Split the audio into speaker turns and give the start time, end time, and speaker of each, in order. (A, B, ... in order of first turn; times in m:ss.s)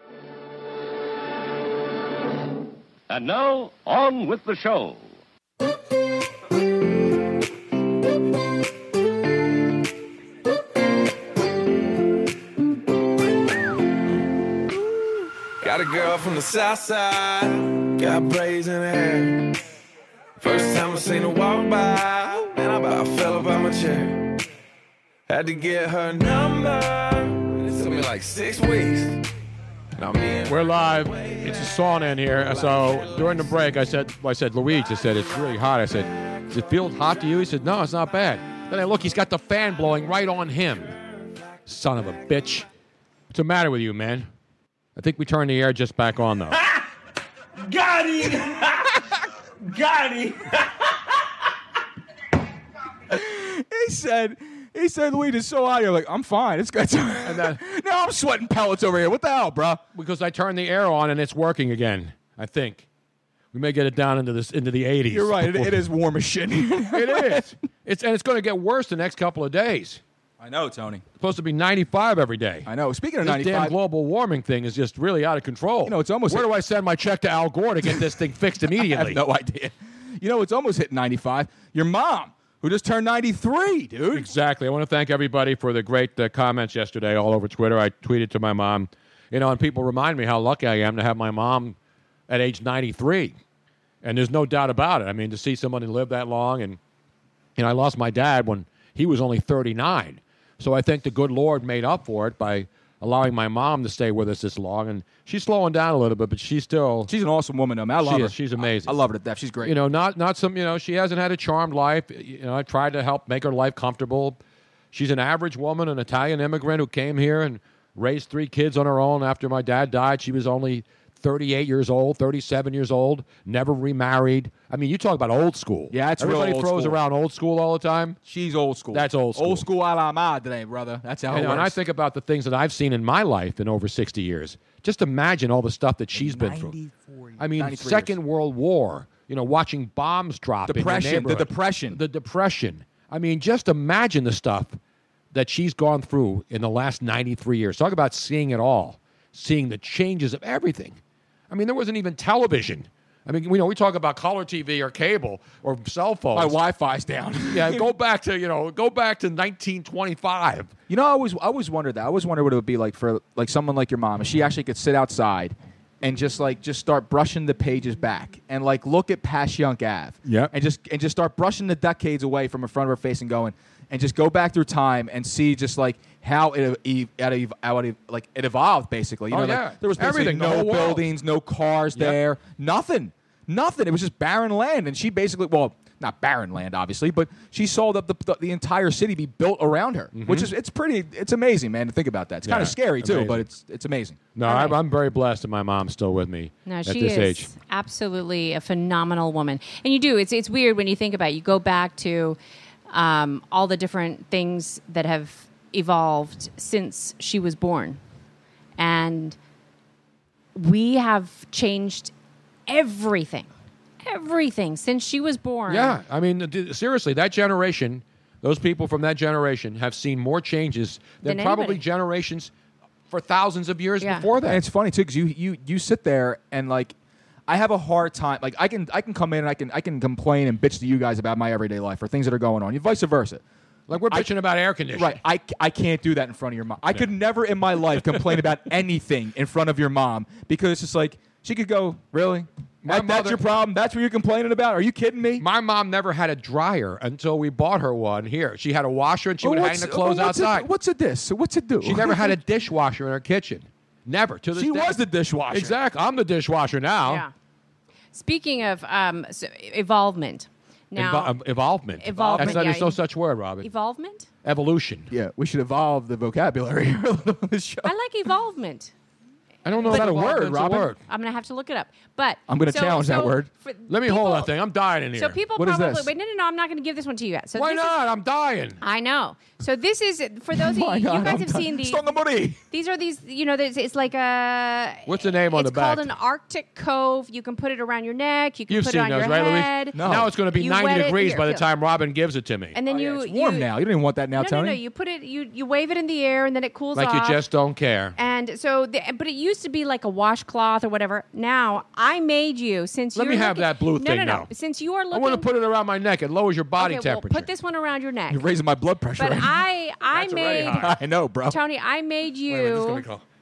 0:03.1-0:05.0 A
0:15.6-0:19.6 B
0:20.4-0:24.3 B
0:25.3-0:29.2 B
0:30.0-0:31.6 B
0:30.4-0:41.0 C
0:32.4-0:33.4 B
0:41.6-0:42.6 C
0:43.3-0:44.3 C
0:45.0-0:46.6 C
0:53.1-0:59.8 D
0:57.2-0:57.6 C
0:59.9-1:02.8 C
1:03.5-1:05.8 C
1:05.1-1:07.5 D
1:06.9-1:10.0 C
1:10.4-1:11.0 D
1:11.2-1:12.7 C
1:12.6-1:13.7 D
1:13.2-1:19.2 C
1:15.8-1:16.4 D
1:18.8-1:24.3 D
1:24.1-1:31.8 C
1:32.3-1:33.3 C
1:34.0-1:36.8 C
1:37.6-1:47.1 C
1:47.1-1:49.8 D
1:48.0-1:49.0 C
1:49.6-1:54.4 C
1:54.9-2:08.2 C
2:05.9-2:07.0 D
2:08.2-2:11.7 D
2:08.9-2:09.6 C
2:11.3-2:16.8 C
2:16.1-2:18.2 D
2:17.4-2:24.8 C
2:20.7-2:22.0 D
2:25.3-2:31.0 C
2:31.5-2:36.6 C
2:36.3-2:37.8 D
2:37.5-2:40.7 C
2:40.9-3:14.2 D
2:59.3-3:01.1 C
3:01.9-3:02.2 C
3:10.1-3:10.5 C
3:12.4-3:13.4 C
3:14.3-3:17.5 C
3:14.4-3:14.8 E
3:16.6-3:22.4 E
3:22.9-3:28.0 E
3:28.8-3:29.4 E
3:30.5-3:32.1 E
3:32.7-3:33.5 E
3:34.0-3:36.0 E
3:35.7-3:42.5 C
3:41.2-3:41.8 E
3:43.1-3:44.6 C
3:44.0-3:44.3 E
3:44.5-3:46.9 D
3:47.5-3:53.4 D
3:53.9-3:55.2 C
3:54.9-4:05.4 D
3:58.0-3:58.4 C
4:02.8-4:03.4 C
4:05.4-4:10.7 C
4:09.4-4:12.4 D
4:11.8-4:17.2 C
4:14.5-4:15.8 D
4:17.0-4:17.3 E
4:18.1-4:21.4 E
4:20.9-4:23.7 C
4:22.0-4:23.0 E
4:22.1-4:22.6 D
4:23.6-4:24.3 E
4:24.4-4:25.1 C
4:25.1-4:27.9 D
4:27.8-4:28.9 E
4:29.6-4:31.0 C
4:29.8-4:30.9 D
4:29.9-4:34.5 E
4:32.5-4:33.5 D
4:33.9-4:35.4 C
4:35.2-4:37.9 E
4:35.6-4:36.1 D
4:37.6-4:38.8 C
4:38.8-4:51.6 E
4:40.5-4:42.6 D
4:45.0-4:46.1 C
4:48.7-4:52.8 C
4:49.9-4:50.3 D
4:52.7-4:53.7 E
4:52.8-4:54.8 D
4:54.3-4:57.4 E
4:56.9-4:58.2 C
4:58.2-5:05.5 E
5:03.1-5:04.5 C
5:05.1-5:07.5 C
5:06.8-5:08.4 E
5:08.3-5:09.6 D
5:09.2-5:10.9 E
5:10.1-5:11.0 C
5:10.7-5:11.6 D
5:11.5-5:13.0 E
5:12.5-5:13.2 C